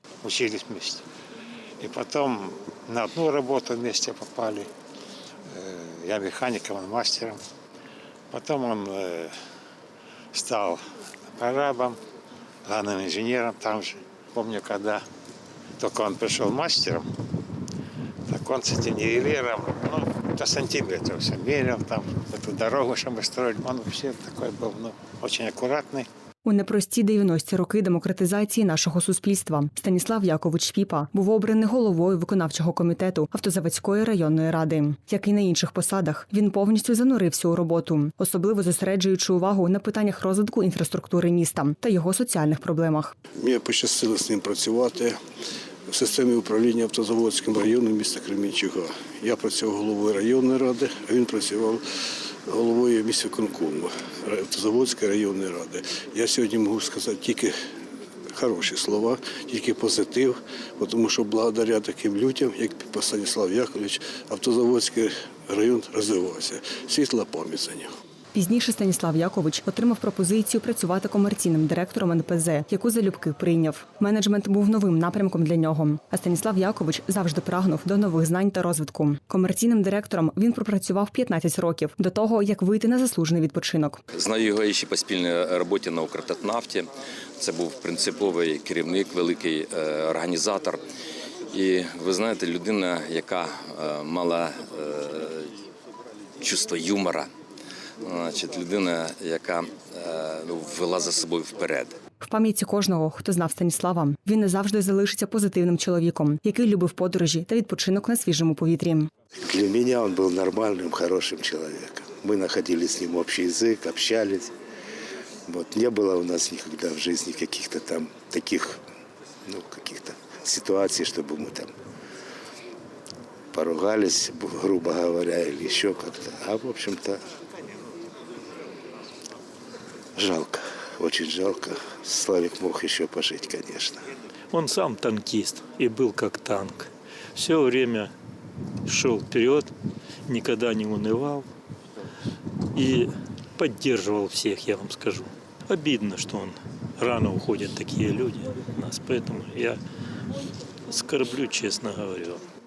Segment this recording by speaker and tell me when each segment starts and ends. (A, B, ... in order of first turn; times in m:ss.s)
0:00.2-0:01.0 A
0:01.8-0:04.7 A
0:05.6-0:07.4 A
0:08.3-0:09.3 A
0:10.3-0:10.8 A
0:11.4-0:12.0 A
0:12.6-0:15.0 A
0:15.8-0:17.1 A
0:18.3-0:26.1 A
0:26.4-0:43.1 B
0:43.4-0:45.2 C
0:45.9-0:51.8 C
0:52.5-0:57.6 C
0:58.4-1:07.9 C
1:08.3-1:24.0 B
1:24.1-1:30.8 D
1:31.5-1:35.5 D
1:36.4-1:37.3 D
1:38.0-1:42.0 D
1:42.2-1:49.1 B
1:49.4-1:54.5 E
1:55.5-1:58.8 E
1:59.4-2:01.7 E
2:03.5-2:07.2 E
2:10.2-2:14.1 E
2:14.5-2:18.1 F
2:18.9-2:19.7 F
2:20.3-2:21.5 F
2:22.7-2:29.8 F
2:30.9-2:32.4 F